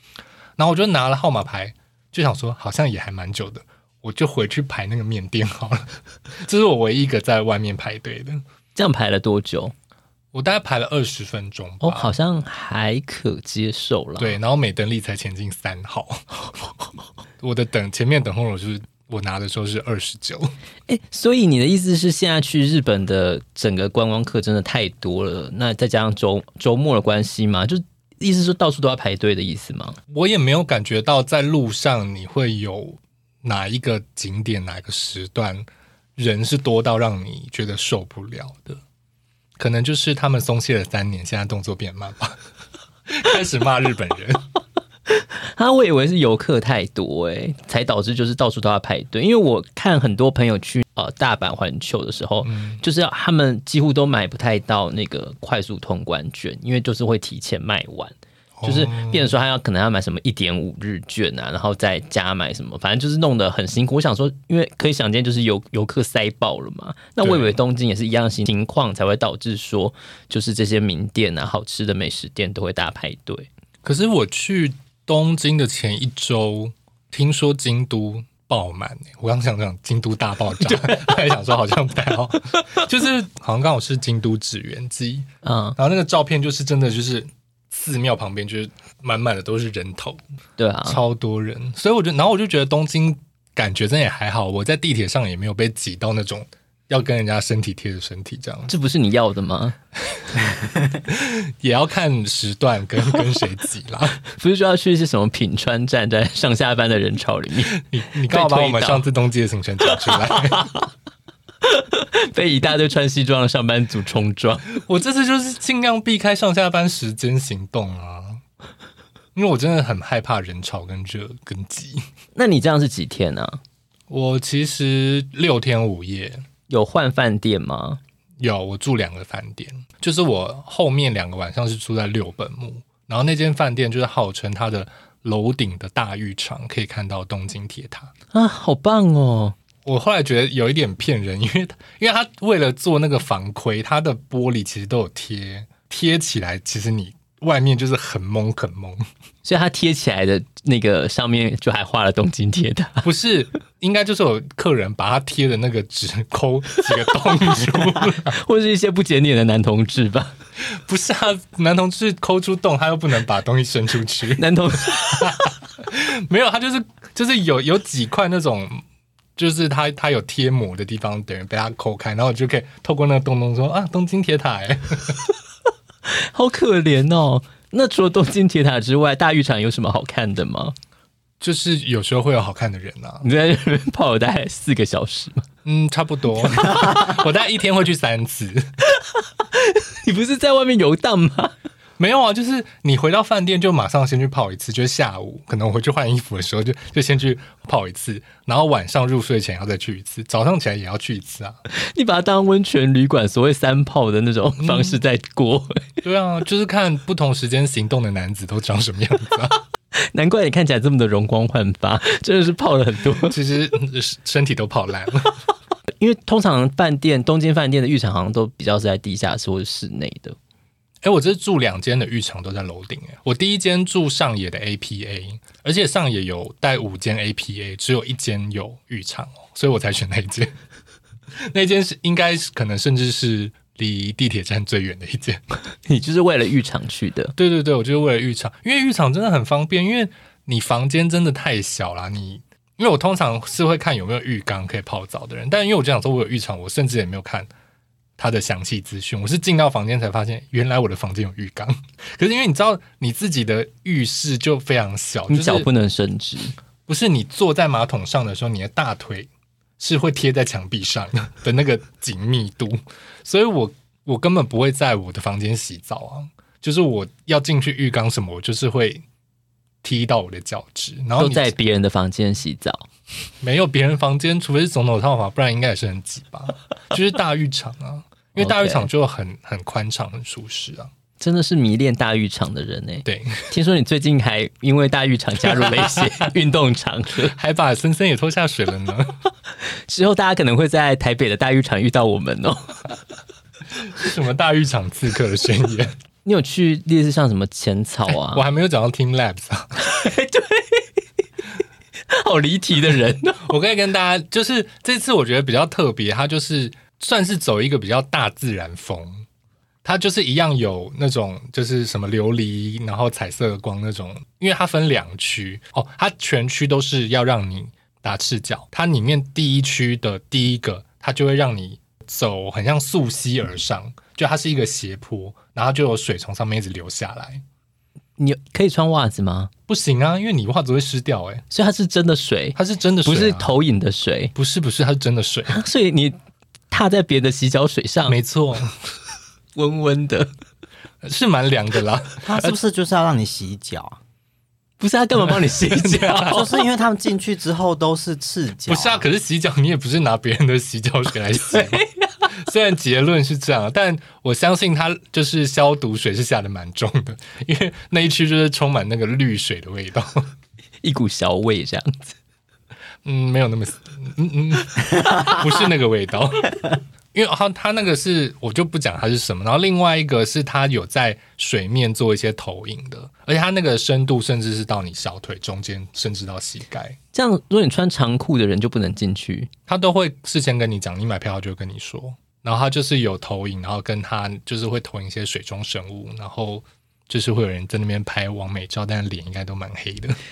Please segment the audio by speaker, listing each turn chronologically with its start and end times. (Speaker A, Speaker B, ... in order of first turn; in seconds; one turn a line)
Speaker A: 0.6-8.4
Speaker B: 8.8-9.7
Speaker A: 10.3-12.1
Speaker B: 11.8-14.4
Speaker A: 14.2-16.3
Speaker A: 17.4-20.5
Speaker B: 20.9-30.0
Speaker A: 30.1-35.7
Speaker A: 36.2-38.8
Speaker A: 39.6-42.4
Speaker A: 43.1-44.4
Speaker B: 45.1-73.5
Speaker A: 52.5-52.8
Speaker A: 58.6-59.3
Speaker A: 67.2-67.6
Speaker A: 73.8-90.2
Speaker B: 80.6-81.2
Speaker B: 85.4-85.8
Speaker B: 90.6-91.0
Speaker A: 90.8-98.7
Speaker B: 98.7-99.8
Speaker A: 100.1-104.2
Speaker B: 104.3-107.8
Speaker A: 107.7-110.7
Speaker B: 108.3-109.1
Speaker B: 109.9-110.9
Speaker B: 111.6-114.8
Speaker A: 114.7-118.4
Speaker A: 119.3-122.1
Speaker B: 122.3-123.6
Speaker A: 124.1-126.5
Speaker B: 126.7-128.0
Speaker A: 128.4-138.1
Speaker B: 138.3-139.6
Speaker A: 139.8-149.1
Speaker B: 149.4-153.1
Speaker A: 153.0-158.4
Speaker B: 157.6-160.3
Speaker A: 160.6-168.8
Speaker B: 164.4-165.5
Speaker A: 169.4-175.2
Speaker B: 176.1-180.8
Speaker A: 181.4-183.3
Speaker B: 183.2-185.5
Speaker A: 185.7-188.8
Speaker B: 189.2-191.5
Speaker A: 192.0-201.6
Speaker B: 201.7-205.9
Speaker A: 204.6-205.0
Speaker A: 206.0-209.6
Speaker B: 210.1-213.3
Speaker A: 213.2-215.4
Speaker B: 216.0-220.4
Speaker A: 221.0-230.5
Speaker A: 231.3-235.4
Speaker B: 235.8-237.3
Speaker A: 237.4-247.5
Speaker A: 248.2-255.7
Speaker B: 255.3-256.6
Speaker A: 256.9-269.0
Speaker A: 269.8-271.5
Speaker B: 271.2-272.9
Speaker A: 273.4-280.9
Speaker B: 278.4-278.9
Speaker B: 281.2-287.3
Speaker A: 283.1-283.5
Speaker A: 285.5-286.3
Speaker A: 287.2-289.2
Speaker B: 289.9-292.9
Speaker A: 293.8-295.9
Speaker B: 296.2-298.4
Speaker A: 298.1-299.8
Speaker B: 299.8-300.9
Speaker B: 302.1-303.5
Speaker A: 303.4-309.3
Speaker A: 309.8-327.4
Speaker B: 328.2-329.5
Speaker A: 329.7-331.4
Speaker B: 331.5-334.3
Speaker A: 332.6-333.5
Speaker A: 334.4-335.6
Speaker B: 335.5-336.2
Speaker B: 336.7-338.2
Speaker A: 338.1-338.7
Speaker B: 339.6-340.3
Speaker A: 341.0-342.5
Speaker C: 342.2-344.0
Speaker B: 344.8-346.5
Speaker A: 345.3-346.4
Speaker C: 346.3-349.1
Speaker A: 348.7-360.3
Speaker B: 351.5-352.4
Speaker B: 360.8-362.2
Speaker A: 363.0-377.0
Speaker B: 377.1-379.5
Speaker A: 379.7-390.2